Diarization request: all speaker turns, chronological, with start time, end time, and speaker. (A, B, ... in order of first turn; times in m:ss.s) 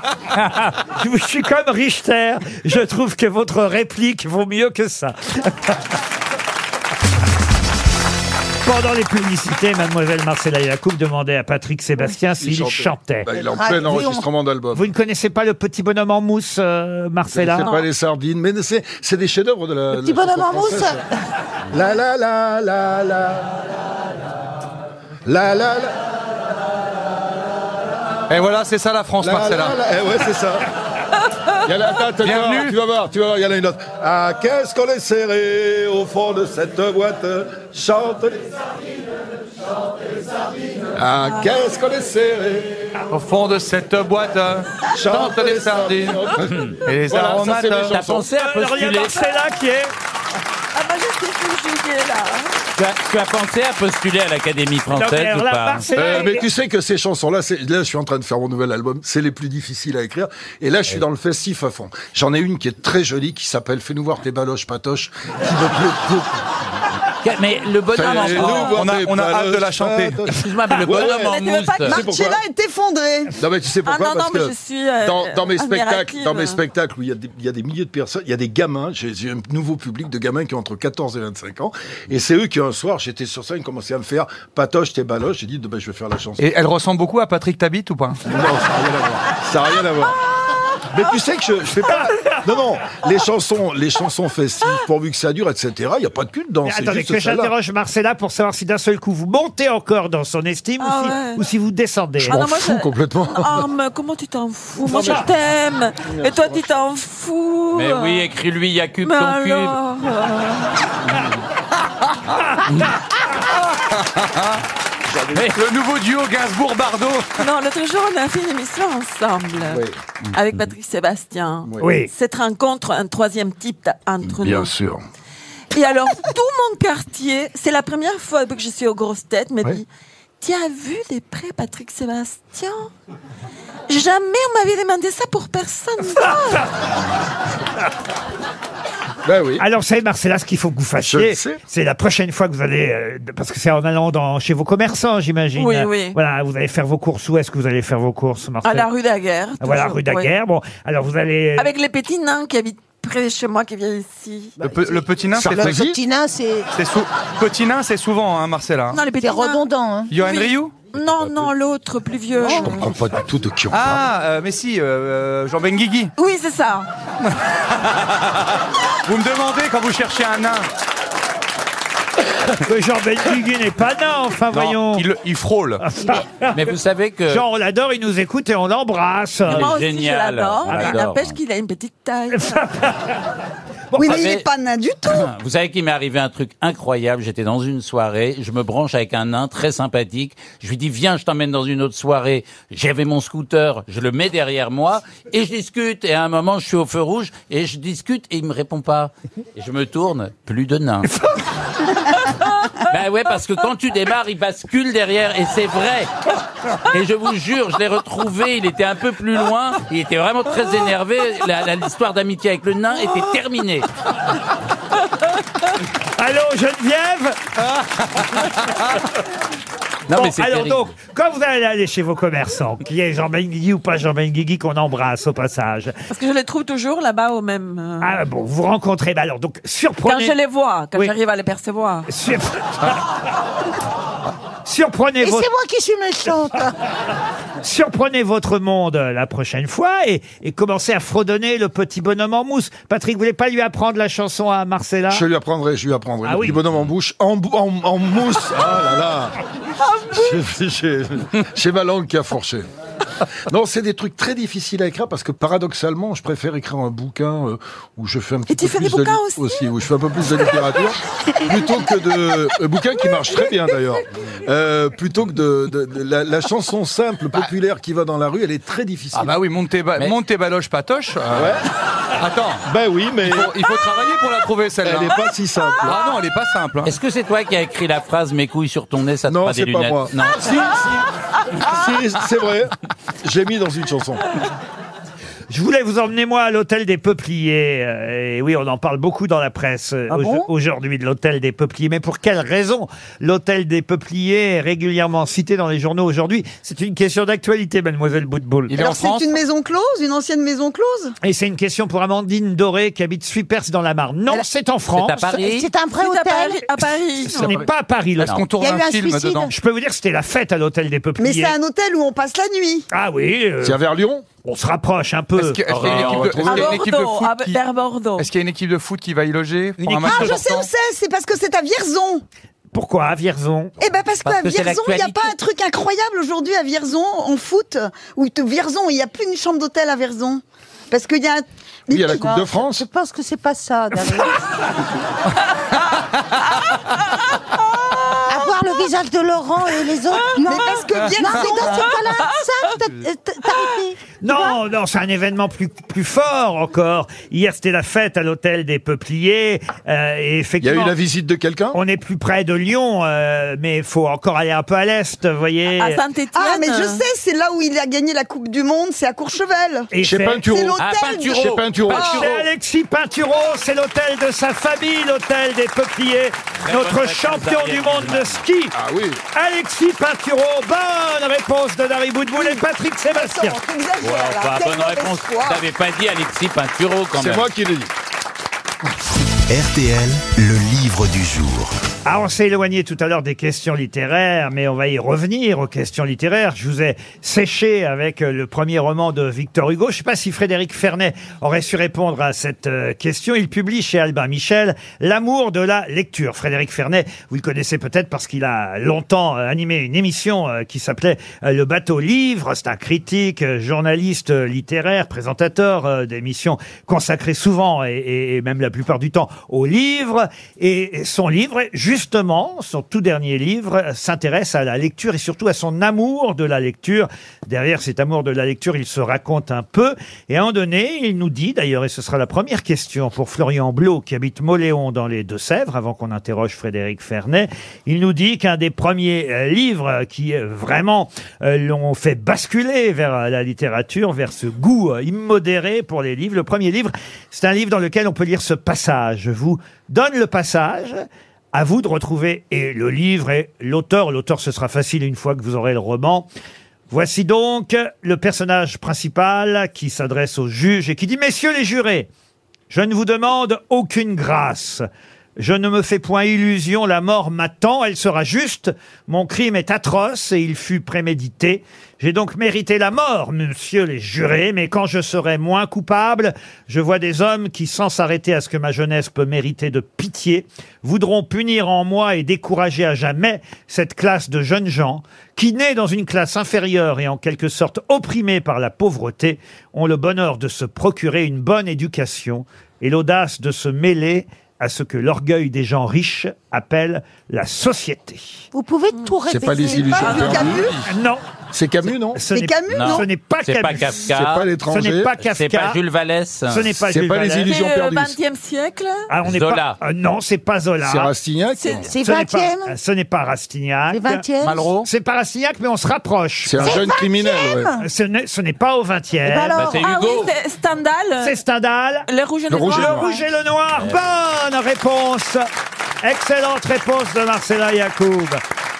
0:00.3-0:05.8 A
0:08.6-0:13.3 A
0:12.4-0:14.9 B
0:13.3-0:14.3 C
0:14.7-0:17.7 A
0:17.3-0:21.0 B
0:17.6-0:17.9 D
0:19.9-0:21.1 C
0:21.7-0:23.5 B
0:25.3-0:26.0 B
0:28.3-0:29.8 E
0:29.2-0:30.7 B
0:31.6-0:38.4 B
0:32.2-0:32.8 E
0:41.0-0:42.8 B
0:41.2-0:41.5 D
0:43.1-0:46.3 E
0:44.9-0:48.2 B
0:46.5-0:46.8 F
0:46.8-0:48.0 E
0:47.9-0:49.2 F
0:48.3-0:49.9 A
0:50.7-0:52.6 D
0:52.8-0:55.8 F
0:54.9-0:56.4 A
0:55.9-1:06.4 B
1:07.2-1:08.8 F
1:08.0-1:12.4 B
1:08.0-1:08.8 D
1:08.6-1:10.4 E
1:10.3-1:12.0 F
1:10.8-1:12.0 D
1:11.9-1:13.4 G
1:13.4-1:26.5 B
1:13.8-1:16.6 D
1:26.4-1:28.2 E
1:28.3-1:30.2 B
1:30.9-1:37.5 B
1:36.6-1:42.4 A
1:40.8-1:41.4 D
1:42.2-1:48.3 D
1:42.2-1:43.7 B
1:44.8-1:45.3 B
1:46.0-1:46.8 B
1:47.7-1:49.8 F
1:49.0-1:50.7 D
1:53.9-1:54.6 E
1:55.1-1:55.4 B
1:55.4-1:57.4 E
1:57.4-2:04.7 D
1:59.7-2:00.0 B
2:01.8-2:02.1 A
2:04.3-2:05.0 B
2:05.7-2:09.9 D
2:10.4-2:12.9 D
2:13.9-2:16.7 D
2:19.2-2:19.6 B
2:19.6-2:28.9 A
2:21.0-2:21.6 B
2:25.6-2:26.2 D
2:28.6-2:30.3 D
2:29.6-2:31.7 A
2:31.6-2:34.6 D
2:34.6-2:36.7 C
2:34.6-2:35.8 E
2:35.4-2:36.0 B
2:36.7-2:39.1 E
2:38.9-2:42.8 D
2:39.1-2:40.1 C
2:40.1-2:40.9 E
2:42.4-2:42.8 C
2:42.6-2:44.0 B
2:43.7-2:46.1 E
2:46.2-2:46.9 D
2:47.8-2:48.1 E
2:49.1-2:50.7 E
2:52.5-2:55.1 A
2:54.5-2:55.8 E
2:55.8-2:56.6 A
2:56.5-2:57.4 F
2:57.3-2:59.7 A
2:59.5-3:01.4 F
2:59.5-3:02.7 D
3:02.4-3:02.9 A
3:03.9-3:05.3 G
3:04.0-3:04.4 F
3:05.1-3:21.1 F
3:22.9-3:26.1 F
3:26.8-3:33.9 F
3:36.2-3:37.5 A
3:40.1-3:40.9 F
3:40.1-3:46.0 A
3:46.1-3:48.2 D
3:48.0-3:50.4 A
3:50.0-3:52.1 D
3:52.1-3:53.0 A
3:54.6-3:55.5 A
3:55.2-3:56.8 C
3:57.6-4:05.2 A
4:05.1-4:09.4 B
4:06.2-4:06.6 A
4:09.8-4:10.4 D
4:10.1-4:12.7 B
4:13.5-4:29.4 B
4:18.5-4:19.6 D
4:29.2-4:31.6 E
4:31.3-4:31.6 B
4:32.2-4:32.7 E
4:32.7-4:33.5 B
4:33.2-4:35.2 E
4:34.8-4:36.0 B
4:35.8-4:36.9 E
4:36.8-4:40.6 F
4:39.3-4:41.1 B
4:41.6-4:44.2 B
4:45.5-4:58.8 A
4:50.1-4:50.5 C
4:58.7-4:59.3 E
4:58.8-5:01.2 G
5:01.2-5:05.4 A
5:04.9-5:05.7 F
5:05.4-5:06.8 C
5:06.0-5:07.6 D
5:07.2-5:08.4 A
5:08.2-5:09.5 E
5:08.6-5:09.5 C
5:09.5-5:11.6 A
5:11.2-5:12.9 G
5:12.9-5:13.8 A
5:13.6-5:14.2 B
5:14.4-5:15.6 A
5:15.4-5:17.6 E
5:15.7-5:16.6 F
5:15.8-5:16.7 B
5:16.4-5:18.3 D
5:18.2-5:20.7 E
5:19.8-5:20.4 A
5:20.0-5:22.2 G
5:22.7-5:23.8 A
5:23.8-5:32.3 G
5:24.2-5:25.3 F
5:31.9-5:32.8 B
5:32.2-5:34.4 C
5:38.3-5:44.0 C
5:40.4-5:42.2 G
5:41.8-5:42.4 D
5:44.2-5:50.9 A
5:50.6-5:51.8 B
5:51.7-5:56.0 A
5:55.7-5:57.0 D
5:56.3-6:01.5 G
5:59.9-6:00.5 A
6:00.0-6:00.8 B
6:00.8-6:02.4 F
6:01.3-6:02.2 B
6:01.9-6:08.8 A
6:06.7-6:08.4 F
6:08.7-6:09.2 B
6:09.3-6:13.6 A
6:12.4-6:15.6 G
6:14.0-6:17.5 F
6:17.2-6:17.9 B
6:19.5-6:21.8 H
6:22.0-7:26.3 A
7:26.9-7:32.1 A
7:32.7-7:34.8 A
7:35.4-8:08.5 A
8:08.5-8:10.6 C
8:09.3-8:10.8 B
8:09.7-8:10.8 D
8:10.0-8:10.7 G
8:10.8-8:11.2 A
8:11.5-8:12.2 B
8:12.1-8:14.0 A
8:12.3-8:13.1 G
8:12.7-8:14.5 F
8:14.0-8:15.1 B
8:14.7-8:15.8 A
8:15.2-8:16.7 F
8:16.5-8:17.6 A
8:16.9-8:18.2 B
8:17.4-8:19.0 D
8:19.1-8:21.1 A
8:19.2-8:19.8 F
8:20.8-8:21.9 B
8:21.5-8:21.9 D
8:21.9-8:22.8 C
8:22.0-8:24.3 A
8:23.9-8:24.7 C
8:24.8-8:26.8 A
8:26.4-8:27.7 B
8:26.6-8:27.8 C
8:27.8-8:29.6 A
8:29.2-8:30.0 C
8:29.6-8:30.3 F
8:29.7-8:31.4 D
8:31.2-8:35.5 A
8:32.1-8:33.2 D
8:32.5-8:33.1 B
8:33.8-8:34.0 F
8:36.0-8:38.4 A